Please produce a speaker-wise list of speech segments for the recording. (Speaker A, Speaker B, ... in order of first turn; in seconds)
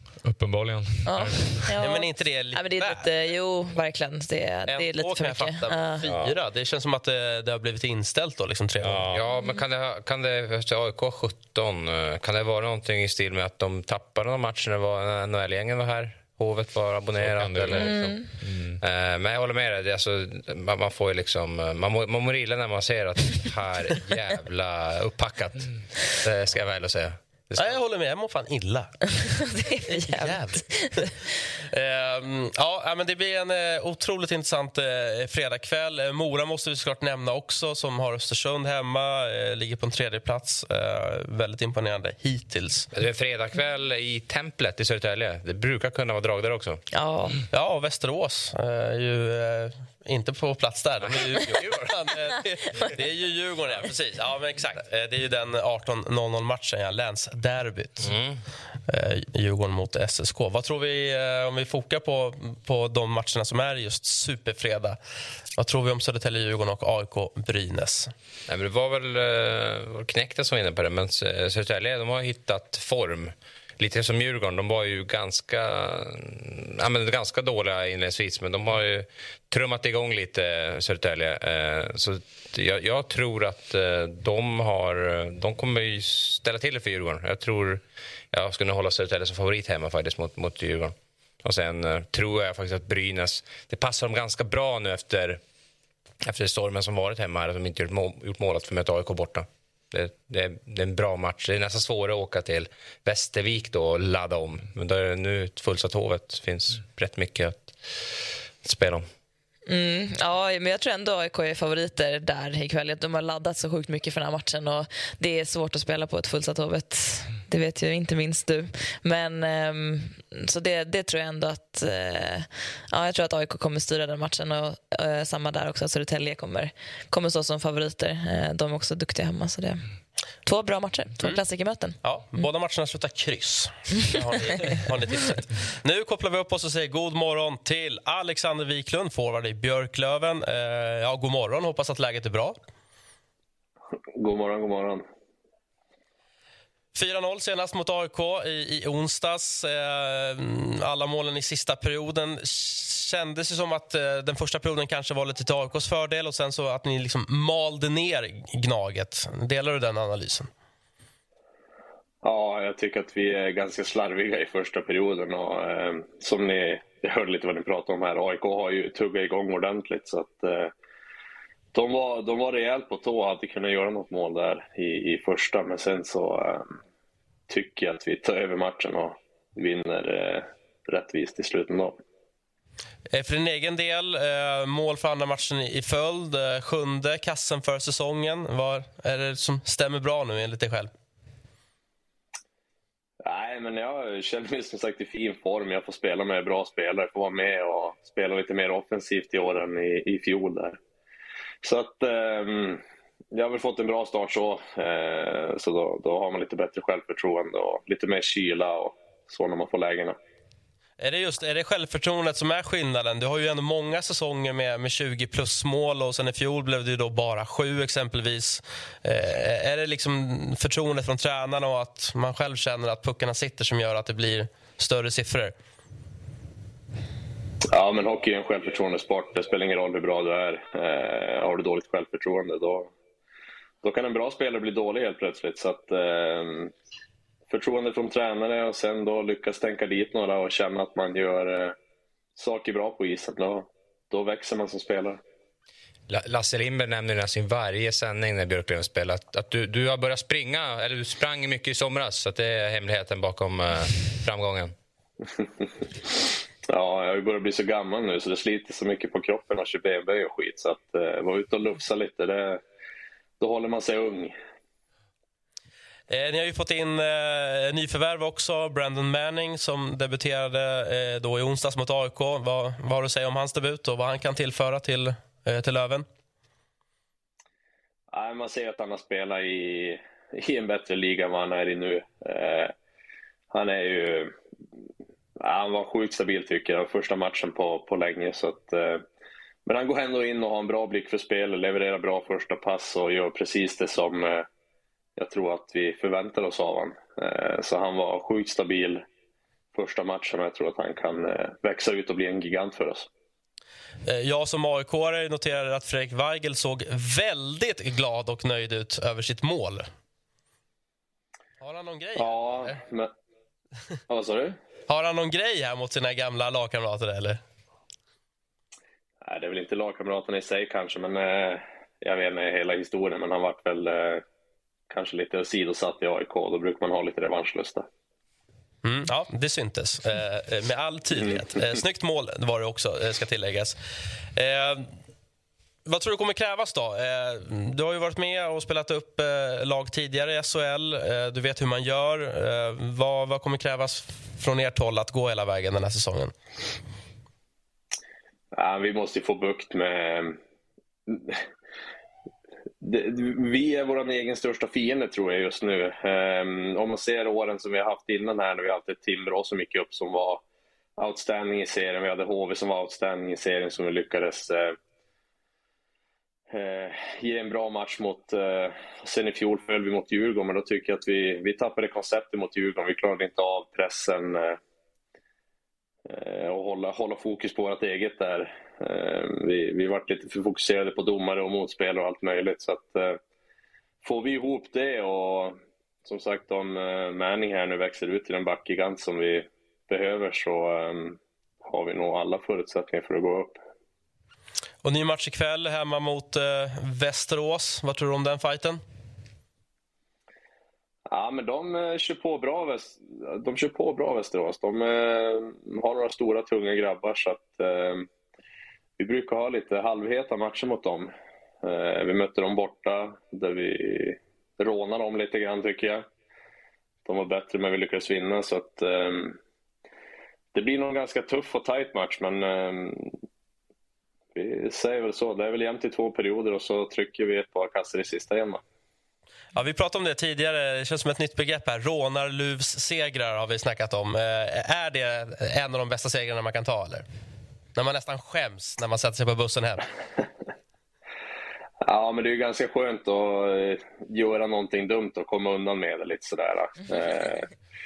Speaker A: 0.2-1.6, 8.8-9.2, 17.2-18.8
Speaker B: 1.1-6.0, 17.7-18.3, 29.5-31.1, 46.9-47.4, 109.7-129.8, 130.4-132.0
Speaker C: 1.8-3.1, 4.7-9.1, 27.6-42.9, 47.5-58.1, 58.9-65.0, 65.6-68.1, 132.0-142.6, 146.9-160.5, 183.1-190.9, 211.0-225.5, 266.1-276.1, 304.1-309.9, 311.6-312.8, 314.9-317.4, 328.8-333.8, 334.3-334.9, 335.8-346.3, 394.8-398.8, 429.6-437.1, 437.7-439.8
Speaker D: 9.1-27.8, 42.9-46.8, 51.0-52.2, 58.0-58.4, 68.5-95.4, 96.2-109.0, 246.1-254.7
Speaker E: 144.1-145.1, 162.2-170.7, 171.7-176.7, 177.5-182.0, 193.2-200.8, 201.6-202.8, 203.3-210.2, 227.7-232.9, 233.8-236.7, 237.5-241.8, 242.4-245.2, 256.7-262.6, 263.4-264.3, 278.1-282.7, 283.5-284.3, 285.4-289.1, 289.6-294.5, 295.2-299.1, 299.7-303.1, 312.1-313.1, 314.1-314.6, 319.2-324.2, 324.9-327.9, 348.5-350.4, 351.1-351.4, 352.8-360.4, 361.0-364.8, 366.5-374.6, 376.1-383.2, 384.0-393.6, 401.1-408.1, 409.0-411.1, 411.6-416.1, 417.1-419.4, 420.5-423.1, 424.3-428.6, 441.9-447.5